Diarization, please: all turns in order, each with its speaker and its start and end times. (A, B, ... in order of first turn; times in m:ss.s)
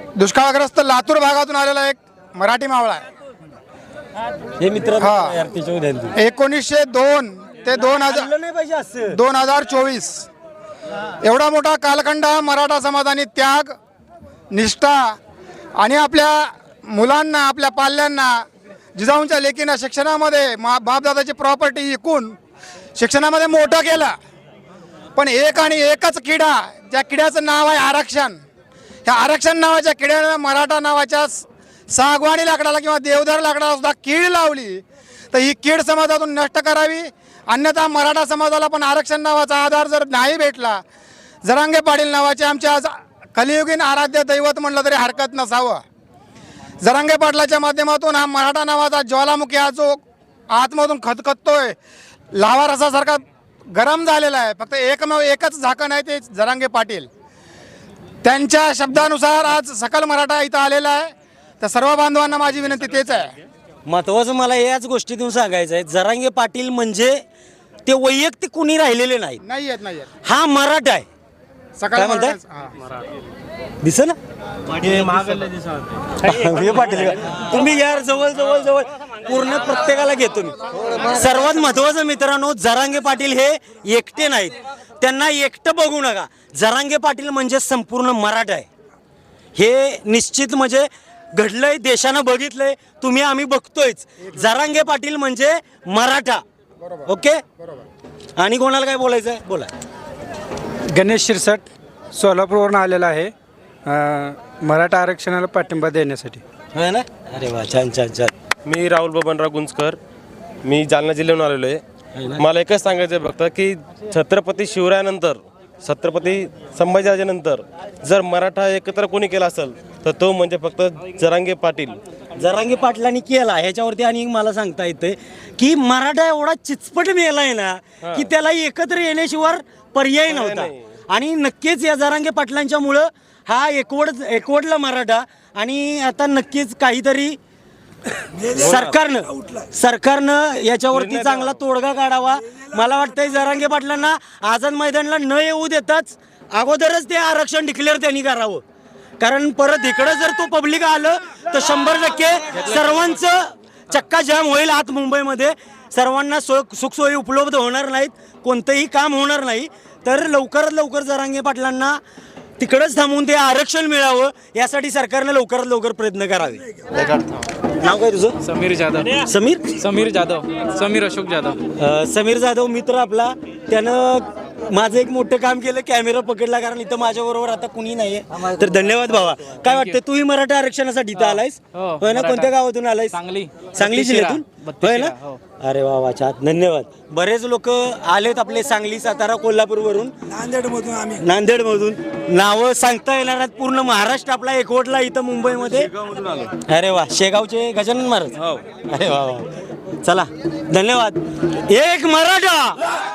0:00.2-0:03.0 A
0:04.6-0:06.1 B
0:05.0-0:05.3 A
0:06.2-0:08.3 A
0:07.7-0:09.2 B
0:09.1-0:10.3 A
0:11.2-0:13.7 A
0:14.5-0:15.2 A
0:15.8-0:18.4 A
0:19.0-0:22.4 A
0:23.0-0:24.1 A
0:25.2-0:28.4 A
0:29.0-0:40.8 A
0:41.4-0:45.8 A
0:46.8-0:51.8 A
0:52.3-0:57.1 A
0:58.2-1:03.3 A
1:03.8-1:07.2 B
1:07.8-1:09.4 B
1:09.4-1:10.1 A
1:10.2-1:11.0 B
1:11.8-1:12.7 A
1:11.9-1:12.4 B
1:13.8-1:14.2 B
1:14.8-1:15.4 B
1:16.2-1:28.7 B
1:29.6-1:36.4 B
1:37.0-1:37.4 B
1:38.4-1:39.7 B
1:40.9-1:43.3 C
1:43.9-1:46.4 C
1:46.7-1:48.3 B
1:48.6-1:50.0 D
1:50.6-1:51.8 D
1:52.2-1:52.4 B
1:52.4-2:02.0 D
2:02.4-2:17.4 B
2:08.0-2:08.3 D
2:10.3-2:10.7 D
2:18.5-2:18.9 D
2:18.6-2:28.6 B
2:20.9-2:21.6 D
2:29.2-2:42.0 B
2:42.6-2:46.6 B
2:47.8-2:48.4 B
2:48.4-2:49.2 E
2:49.2-2:49.6 B
2:49.8-2:51.6 E
2:51.8-3:03.2 B
2:59.6-3:00.0 E
3:01.2-3:02.5 E
3:03.1-3:05.4 E
3:03.7-3:10.1 B
3:10.4-3:11.0 E
3:11.1-3:15.9 B
3:16.7-3:19.5 B
3:20.0-3:22.8 B